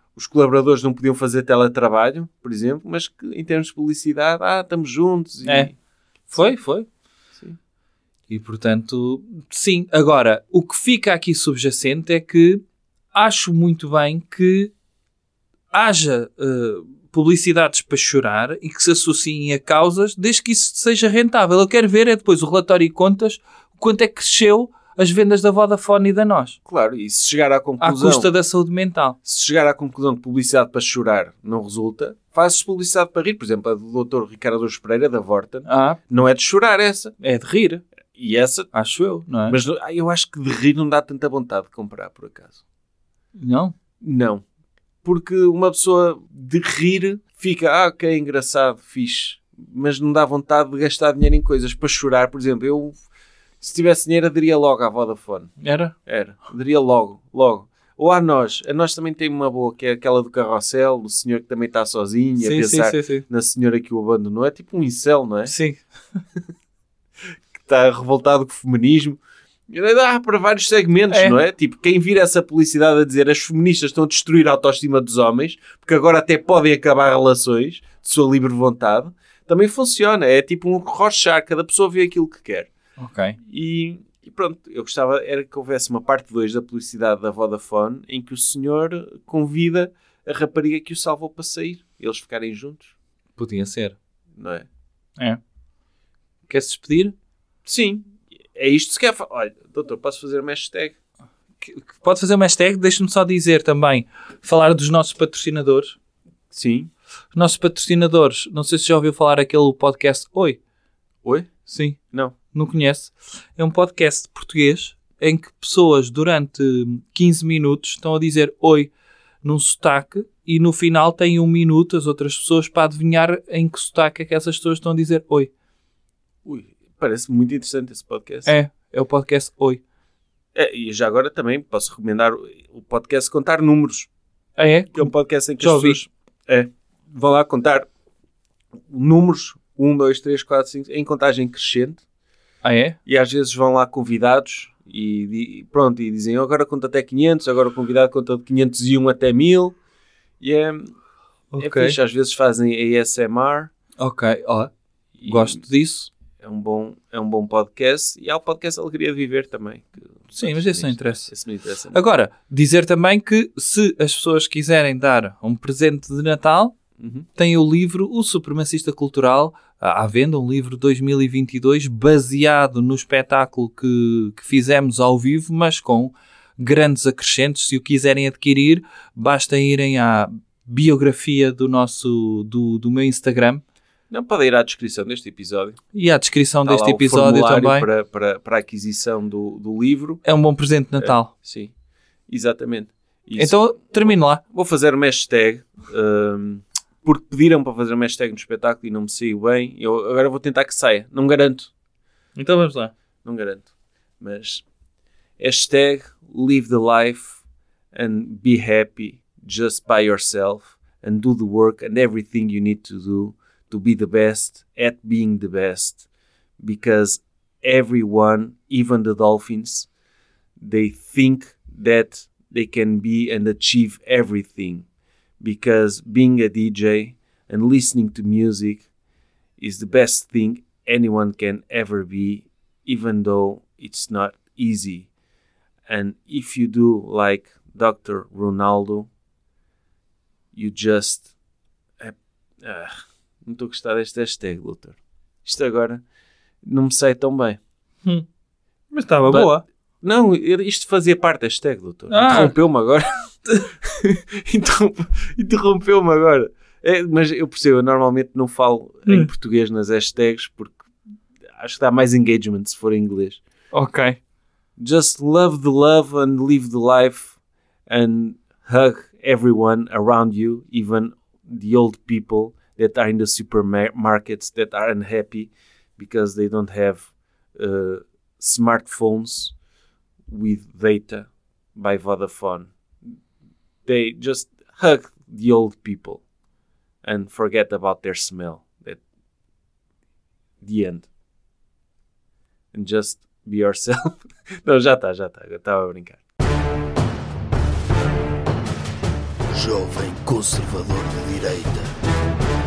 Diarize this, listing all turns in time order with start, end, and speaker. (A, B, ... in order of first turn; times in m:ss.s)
0:00.2-0:05.7 A
0:05.4-0:05.7 B
0:06.3-0:06.9 B
0:08.3-0:14.7 B
0:15.7-0:26.6 B
0:26.7-0:28.3 A
0:27.8-0:29.2 B
0:29.2-0:37.2 A
0:35.7-0:36.0 B
0:37.2-0:37.8 B
0:38.2-0:38.7 A
0:38.7-0:39.6 B
0:39.5-0:42.6 A
0:43.4-0:43.7 B
0:44.0-0:44.4 A
0:45.0-0:53.0 A
0:53.6-1:05.5 A
0:55.6-0:55.9 B
1:02.4-1:03.3 B
1:05.5-1:05.8 B
1:07.5-1:22.7 A
1:11.1-1:11.4 B
1:23.0-1:23.4 B
1:23.4-1:32.9 A
1:33.4-1:34.0 B
1:34.4-1:34.7 A
1:36.5-1:37.2 B
1:37.6-1:41.0 A
1:41.6-1:46.0 B
1:46.5-1:46.9 A
1:47.3-1:50.6 B
1:51.2-1:51.6 A
1:51.6-1:52.0 B
1:52.1-1:52.4 A
1:52.5-1:58.9 B
1:59.4-2:05.5 B
2:06.4-2:08.5 A
2:08.4-2:09.8 B
2:10.6-2:14.1 A
2:14.6-2:16.0 B
2:14.9-2:17.9 A
2:18.9-2:22.0 A
2:22.6-2:23.0 B
2:23.1-2:29.8 A
2:30.4-2:30.9 A
2:31.5-2:32.0 B
2:31.6-2:33.7 A
2:34.0-2:34.7 B
2:35.2-2:35.6 A
2:35.3-2:36.1 B
2:36.4-2:42.0 A
2:40.4-2:41.3 B
2:41.9-2:46.8 B
2:47.0-2:47.3 A
2:47.4-3:03.6 B
3:04.1-3:05.8 A
3:05.9-3:07.9 B
3:06.6-3:10.2 A
3:10.2-3:11.3 B
3:11.0-3:11.7 A
3:12.3-3:21.7 A
3:13.4-3:14.4 B
3:22.4-3:22.9 B
3:23.2-3:23.7 A
3:24.2-3:24.6 A
3:25.4-3:27.4 A
3:27.9-3:36.0 A
3:36.6-3:39.9 A
3:40.6-3:44.9 A
3:45.4-3:48.9 A
3:49.6-3:55.1 A
3:55.9-3:59.1 A
4:00.5-4:01.3 A
4:02.0-4:06.0 A
4:06.6-4:07.6 A
4:08.9-4:09.6 B
4:09.3-4:20.8 A
4:12.1-4:12.5 B
4:21.6-4:23.4 A
4:23.7-4:24.2 B
4:24.8-4:27.4 A
4:27.9-4:39.5 A
4:40.3-4:43.1 A
4:43.9-4:46.2 A
4:47.0-4:49.0 A
4:50.6-4:51.1 A
4:52.7-4:56.2 A
4:59.6-5:00.5 A
4:59.6-5:01.9 C